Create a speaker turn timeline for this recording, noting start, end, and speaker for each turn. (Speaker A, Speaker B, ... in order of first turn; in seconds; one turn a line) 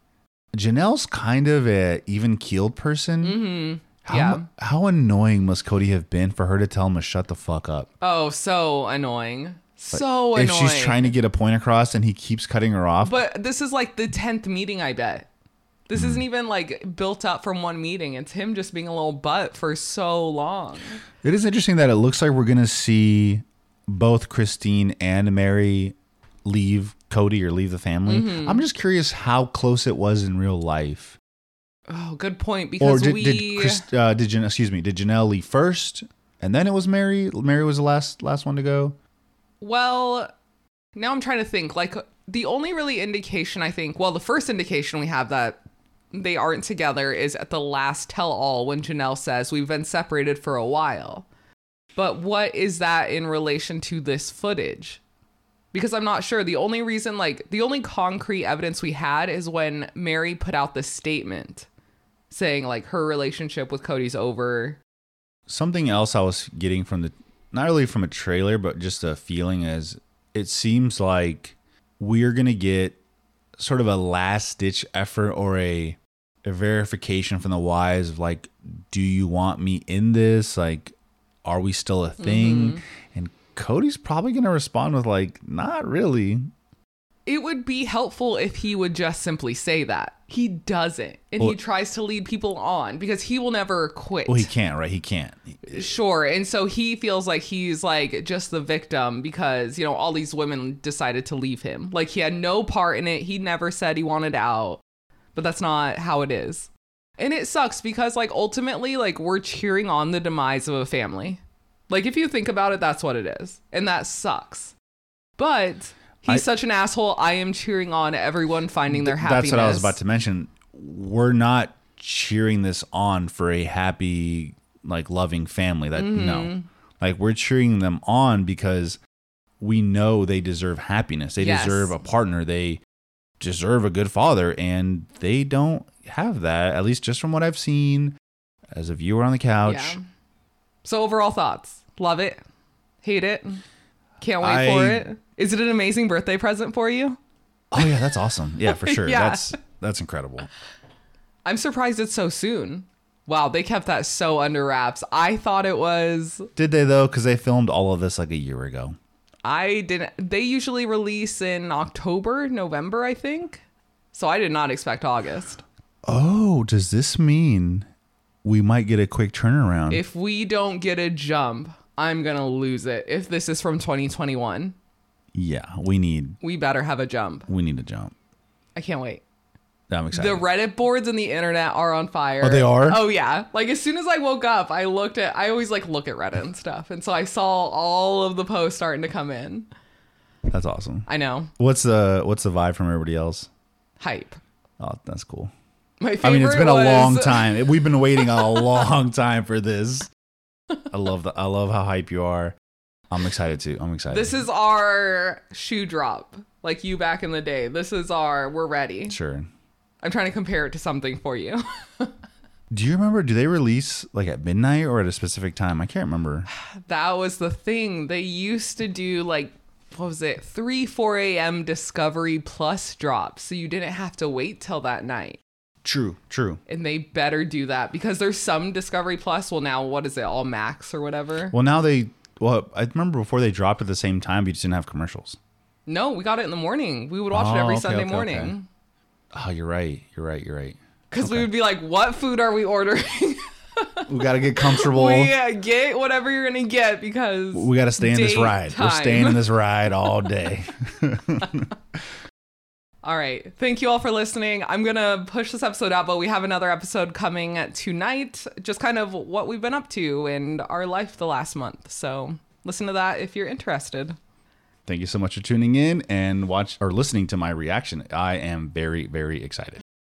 Speaker A: 0.5-7.9
Speaker B: 3.2-4.4
Speaker B: 8.0-11.1
Speaker A: 9.9-13.2
Speaker B: 13.0-15.3
Speaker B: 15.9-21.0
Speaker A: 15.9-16.2
Speaker A: 21.2-31.2
Speaker B: 28.1-28.6
Speaker B: 31.9-33.8
Speaker A: 32.8-39.0
Speaker B: 39.6-40.3
Speaker B: 40.9-45.6
Speaker B: 46.1-51.3
Speaker B: 52.0-55.0
Speaker B: 55.7-61.7
Speaker B: 62.3-64.8
Speaker A: 65.5-73.0
Speaker A: 73.6-86.5
Speaker B: 82.2-82.8
Speaker B: 87.2-94.5
Speaker A: 94.2-95.9
Speaker B: 95.7-104.8
Speaker B: 105.3-114.7
Speaker B: 115.4-120.0
Speaker A: 118.9-129.0
Speaker B: 125.9-126.7
Speaker A: 129.6-132.8
Speaker B: 131.4-132.0
Speaker A: 133.4-138.2
Speaker A: 138.7-140.0
Speaker B: 139.6-140.0
Speaker B: 140.8-142.4
Speaker B: 143.0-143.6
Speaker B: 144.2-147.2
Speaker A: 144.4-145.1
Speaker A: 147.7-150.5
Speaker B: 148.7-149.6
Speaker B: 151.4-156.5
Speaker A: 156.6-159.0
Speaker B: 159.4-163.6
Speaker B: 164.1-165.6
Speaker A: 166.1-167.9
Speaker A: 168.4-170.0
Speaker B: 169.9-174.7
Speaker A: 175.3-176.4
Speaker B: 176.4-177.5
Speaker A: 177.5-178.1
Speaker B: 178.8-179.2
Speaker A: 179.9-180.4
Speaker B: 180.1-189.7
Speaker A: 182.4-183.0
Speaker A: 190.5-191.1
Speaker B: 191.1-191.5
Speaker A: 191.6-193.5
Speaker B: 194.0-194.4
Speaker A: 194.8-195.5
Speaker B: 196.0-198.7
Speaker A: 196.2-200.1
Speaker A: 200.9-202.6
Speaker A: 203.1-204.4
Speaker B: 204.1-209.2
Speaker A: 209.1-209.5
Speaker B: 210.0-212.1
Speaker A: 212.7-216.5
Speaker B: 216.5-225.4
Speaker A: 225.8-226.6
Speaker B: 226.7-231.6
Speaker A: 231.5-235.4
Speaker B: 235.9-238.7
Speaker A: 237.3-238.6
Speaker A: 239.3-241.5
Speaker B: 241.1-244.1
Speaker A: 244.1-245.3
Speaker B: 244.6-249.9
Speaker A: 247.5-251.7
Speaker B: 253.0-264.2
Speaker A: 264.9-269.8